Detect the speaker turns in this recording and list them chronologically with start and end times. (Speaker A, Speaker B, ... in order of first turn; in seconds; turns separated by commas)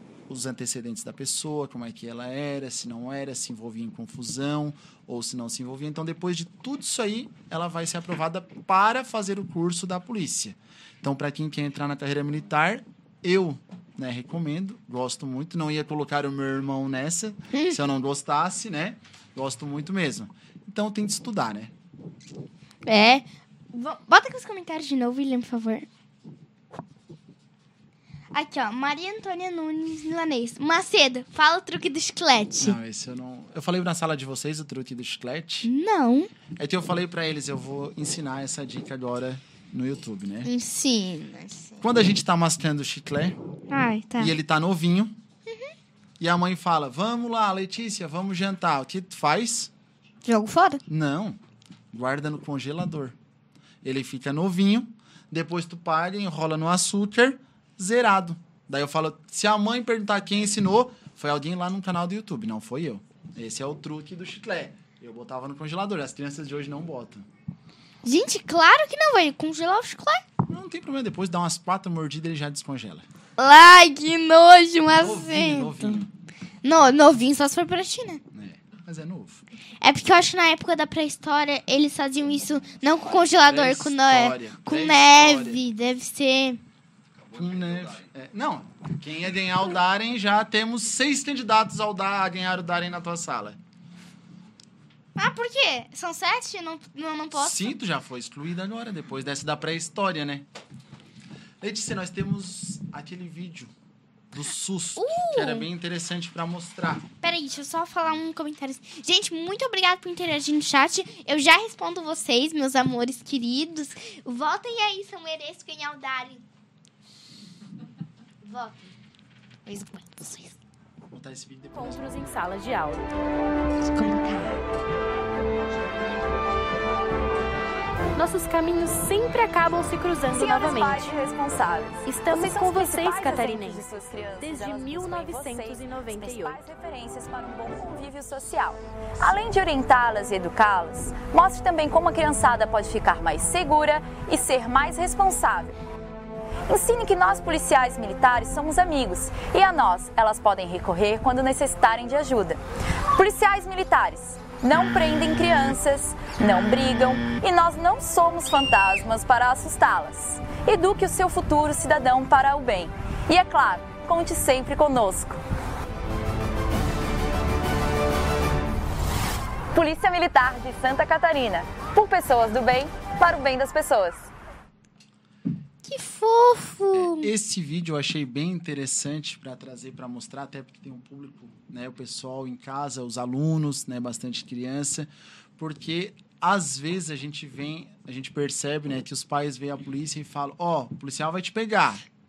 Speaker A: 0.3-21.7, Speaker B: 22.9-25.9, Speaker B: 28.3-32.8, Speaker A: 32.6-35.7, Speaker B: 35.6-36.3, Speaker A: 36.5-40.5, Speaker B: 40.5-41.8, Speaker A: 41.8-43.4, Speaker B: 43.7-44.3, Speaker A: 44.2-45.2, Speaker A: 46.2-49.7, Speaker B: 50.3-50.8, Speaker A: 50.9-51.4, Speaker A: 51.9-53.2, Speaker A: 53.8-67.3, Speaker B: 68.0-70.2, Speaker A: 70.5-73.1, Speaker B: 73.4-76.0, Speaker A: 75.0-76.1, Speaker B: 76.6-78.2, Speaker A: 78.3-79.5, Speaker B: 79.8-86.6, Speaker A: 83.4-85.6, Speaker A: 87.3-93.6, Speaker B: 95.2-97.7, Speaker A: 97.4-100.5, Speaker A: 101.6-103.7, Speaker A: 104.3-107.1, Speaker B: 105.0-105.7, Speaker B: 107.2-116.4, Speaker B: 118.4-118.9, Speaker B: 119.7-120.6, Speaker A: 121.1-122.2, Speaker C: 121.8-123.1, Speaker B: 123.8-124.6, Speaker C: 128.2-131.1, Speaker D: 130.3-145.8, Speaker C: 132.1-136.7, Speaker D: 146.7-152.6, Speaker D: 153.2-165.4, Speaker D: 169.7-174.3, Speaker B: 175.8-177.3, Speaker A: 176.9-192.0